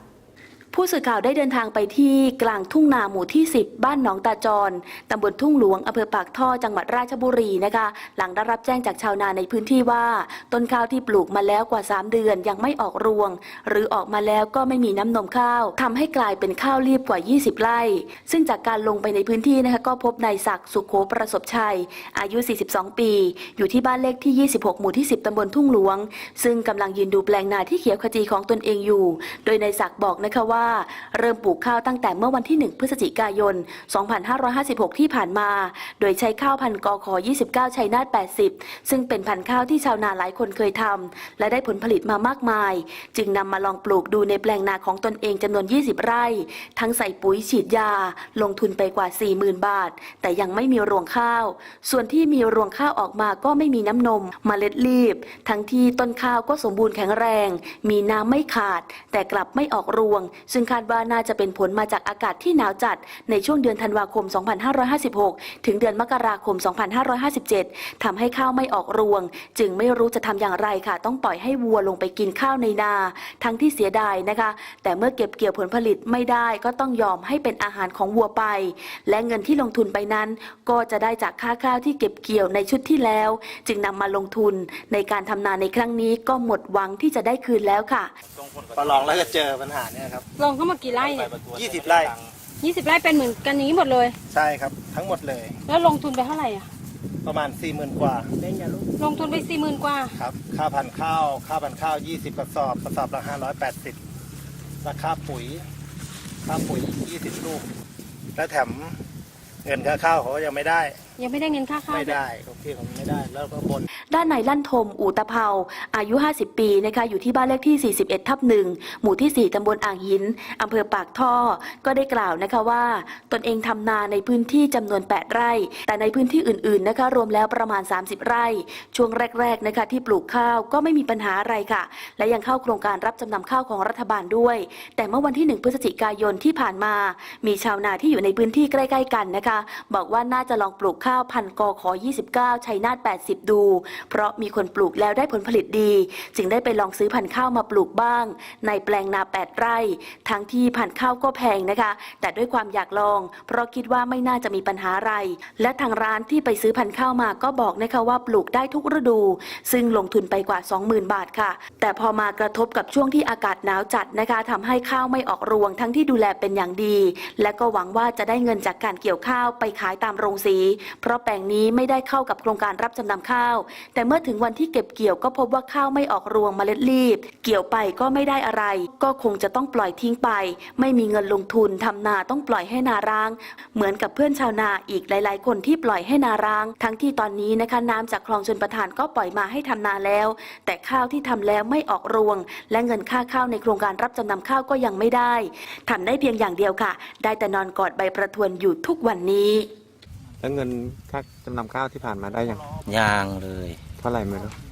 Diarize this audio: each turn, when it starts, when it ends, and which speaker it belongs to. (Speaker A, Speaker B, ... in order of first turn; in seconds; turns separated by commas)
Speaker A: 0.7-88.1, Speaker B: 88.3-89.3, Speaker C: 88.8-90.2, Speaker D: 90.4-91.3, Speaker B: 91.2-92.3, Speaker C: 91.5-92.1, Speaker D: 92.6-94.2, Speaker C: 94.3-95.6, Speaker D: 95.7-96.7, Speaker C: 97.2-98.3, Speaker D: 99.0-100.1, Speaker C: 100.2-104.0, Speaker C: 104.8-105.6, Speaker C: 106.5-107.7, Speaker C: 108.4-109.0, Speaker C: 109.6-111.0, Speaker D: 111.2-112.2, Speaker C: 111.9-113.9, Speaker A: 114.1-199.7, Speaker E: 200.4-202.6, Speaker B: 202.8-203.8, Speaker E: 204.0-204.6